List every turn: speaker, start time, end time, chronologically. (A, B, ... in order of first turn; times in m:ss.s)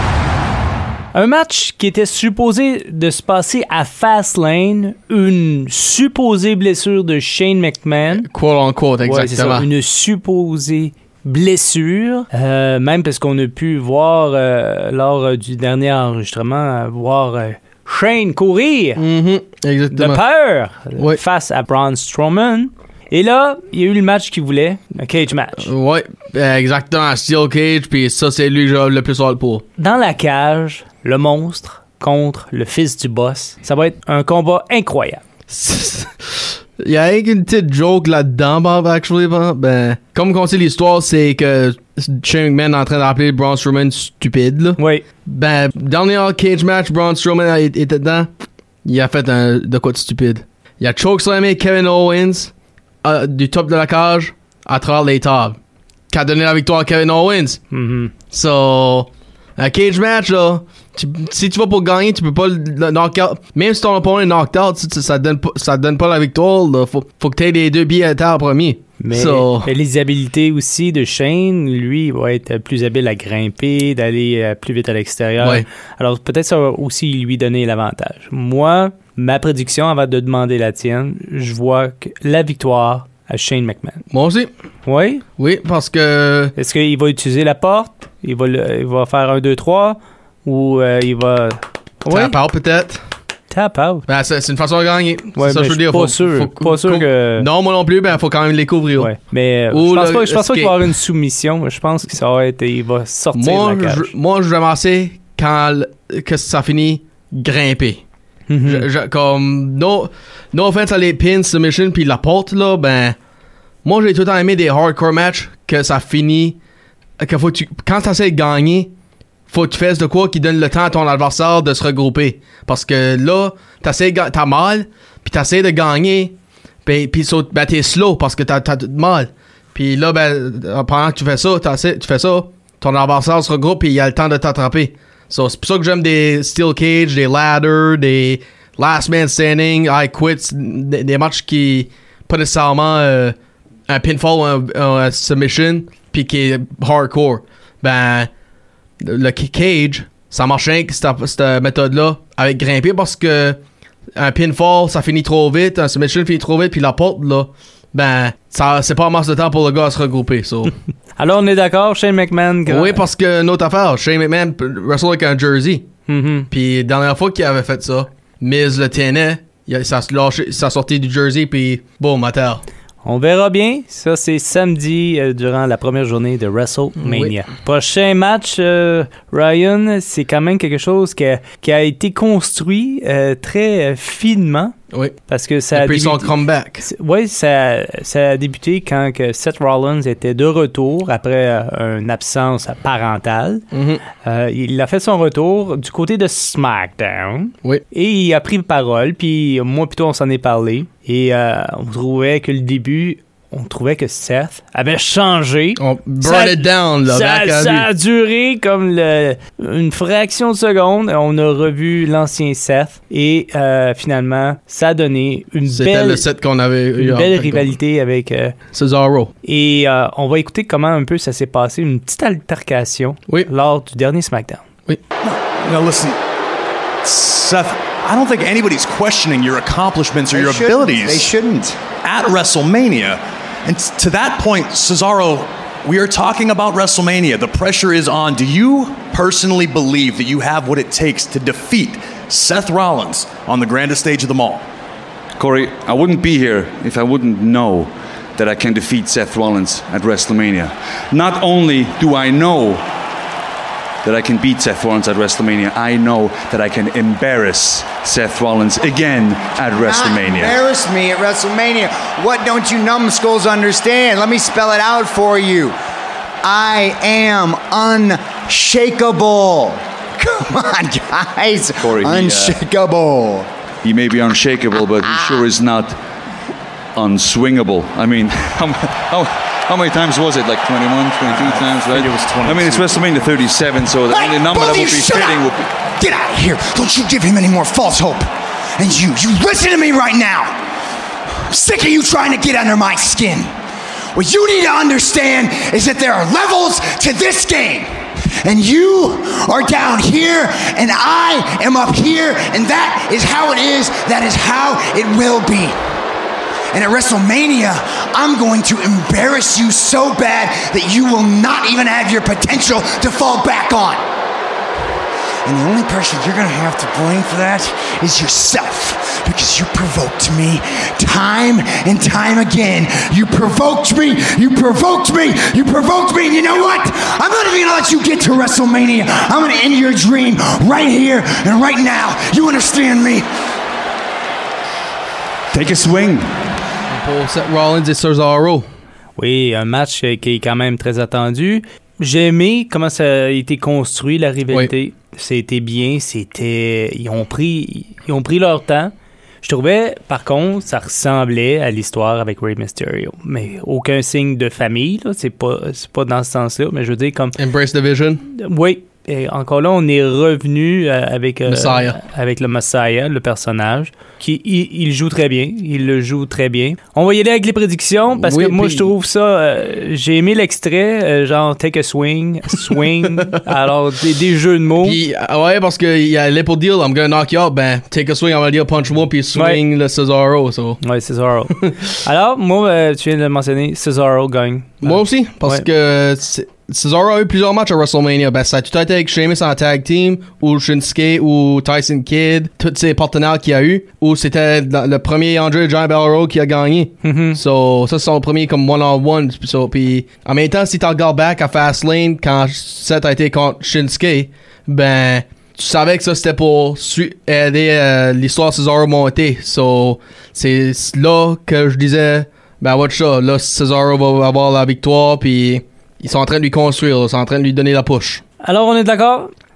0:01.1-0:08.3 A
0:08.2-0:09.7 B
0:09.0-0:19.0 A
0:19.0-0:20.2 B
0:19.9-0:25.7 A
0:25.6-0:29.6 B
0:29.8-0:35.2 A
0:35.5-0:48.3 B
0:44.8-0:45.0 A
0:48.8-0:52.5 B
0:53.0-0:55.6 B
0:56.1-0:57.6 B
0:57.7-0:58.1 A
0:58.3-1:09.7 B
1:09.0-1:24.1 A
1:15.4-1:15.7 B
1:24.1-1:24.5 B
1:24.9-1:25.2 A
1:25.4-1:26.5 B
1:26.6-1:32.4 A
1:32.1-1:33.0 B
1:33.5-1:34.1 A
1:34.1-1:39.1 B
1:35.4-1:37.5 A
1:39.0-1:44.1 A
1:39.7-1:40.8 B
1:43.3-1:48.0 B
1:48.5-1:48.9 A
1:48.6-1:53.2 B
1:53.8-1:56.6 B
1:57.2-1:58.9 B
1:59.5-2:23.4 B
2:23.9-2:28.3 B
2:29.0-2:33.6 B
2:34.2-2:40.7 B
2:41.2-2:43.0 A
2:42.7-2:45.9 B
2:46.1-2:46.5 A
2:46.5-2:52.6 B
2:53.0-3:04.8 A
2:57.0-2:57.4 B
3:05.3-3:13.6 A
3:05.7-3:06.9 B
3:13.7-3:14.0 B
3:14.2-3:36.2 A
3:25.8-3:27.9 B
3:35.7-3:37.8 B
3:37.0-3:38.6 A
3:38.7-3:39.3 B
3:39.4-3:44.6 A
3:45.2-3:46.2 C
3:47.0-3:51.3 C
3:50.3-3:51.8 D
3:52.0-4:04.6 C
4:05.4-4:12.8 E
4:14.0-4:20.6 E
4:19.8-4:25.8 D
4:26.4-4:33.5 D
4:31.8-4:32.6 E
4:33.8-4:36.0 E
4:35.2-4:35.4 D
4:37.0-4:45.6 E
4:42.2-4:42.8 C
4:44.1-4:50.6 D
4:51.5-4:53.5 D
4:54.2-5:05.8 D
5:06.7-5:14.1 D
5:15.4-5:33.3 D
5:35.5-5:36.3 E
5:36.9-5:38.7 B
5:39.2-5:48.9 A
5:49.4-5:57.4 A
5:57.4-5:58.2 B
5:58.3-6:15.0 A
6:01.5-6:02.0 B
6:08.2-6:08.9 B
6:14.8-6:20.8 B
6:19.4-6:19.6 A
6:20.8-6:25.7 A
6:24.8-6:58.2 B
6:37.0-6:37.4 A
6:58.4-6:59.3 A